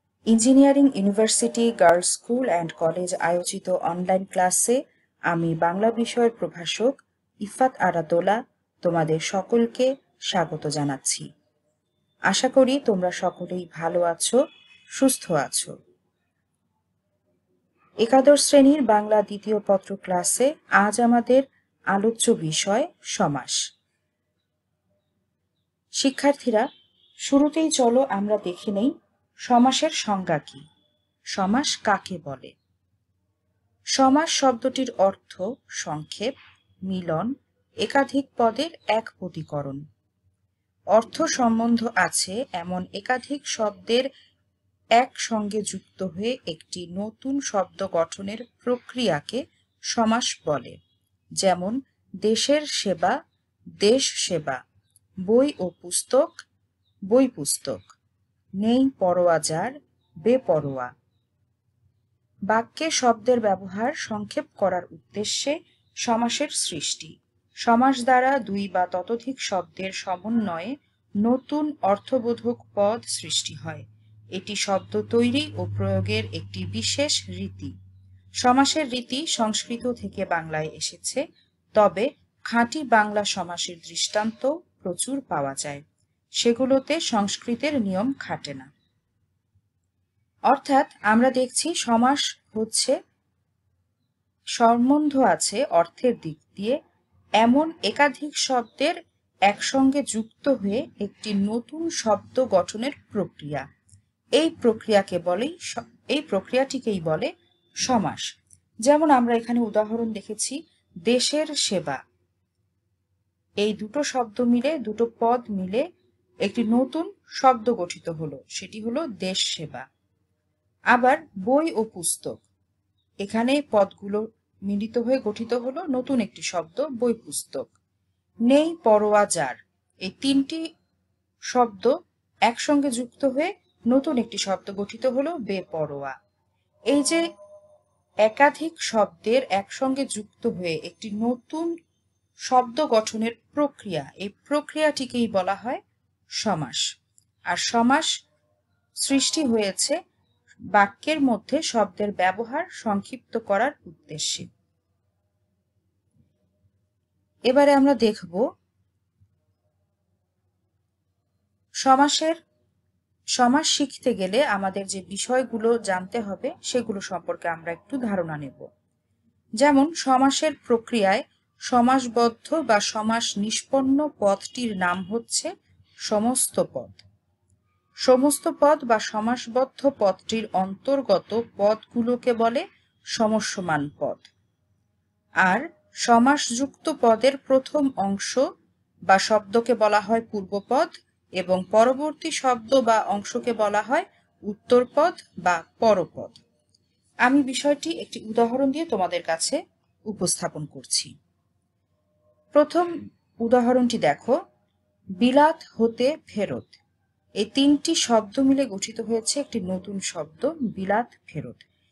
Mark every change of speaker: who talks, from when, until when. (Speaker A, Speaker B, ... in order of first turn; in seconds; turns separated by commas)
Speaker A: 0.3-4.8, Speaker A: 5.3-11.3, Speaker A: 12.3-14.4, Speaker A: 15.0-15.7, Speaker A: 18.0-23.6, Speaker A: 26.0-26.7, Speaker A: 27.2-28.9, Speaker A: 29.5-30.6, Speaker A: 31.3-32.5, Speaker A: 34.0-36.3, Speaker A: 36.9-37.3, Speaker A: 37.8-39.8, Speaker A: 40.9-44.1, Speaker A: 45.0-49.4, Speaker A: 49.9-50.8, Speaker A: 51.4-53.1, Speaker A: 53.8-54.6, Speaker A: 55.2-56.4, Speaker A: 57.1-57.9, Speaker A: 58.6-60.9, Speaker A: 62.5-77.7, Speaker A: 78.4-81.2, Speaker A: 81.8-85.8, Speaker A: 86.4-88.7, Speaker A: 90.5-93.0, Speaker A: 94.6-96.8, Speaker A: 97.4-103.7, Speaker A: 104.4-107.3, Speaker A: 107.8-108.3, Speaker A: 108.8-112.0, Speaker A: 113.6-115.8, Speaker A: 116.4-119.8, Speaker A: 120.9-122.4, Speaker A: 123.2-127.7, Speaker A: 128.5-130.6, Speaker A: 131.5-131.9, Speaker A: 132.5-136.2, Speaker A: 136.9-137.2, Speaker A: 138.2-141.7, Speaker A: 142.5-145.8, Speaker A: 146.4-146.8, Speaker A: 147.5-148.1, Speaker A: 149.0-150.0, Speaker A: 150.7-154.5, Speaker A: 157.5-158.4, Speaker A: 161.8-162.4, Speaker A: 163.4-168.7, Speaker A: 169.6-175.5, Speaker A: 176.1-177.0, Speaker A: 178.1-182.6, Speaker A: 183.2-184.2, Speaker A: 185.4-188.4, Speaker A: 189.1-196.4, Speaker A: 197.2-201.1, Speaker A: 202.5-202.9, Speaker A: 203.4-204.3, Speaker A: 205.2-206.8, Speaker A: 207.4-211.6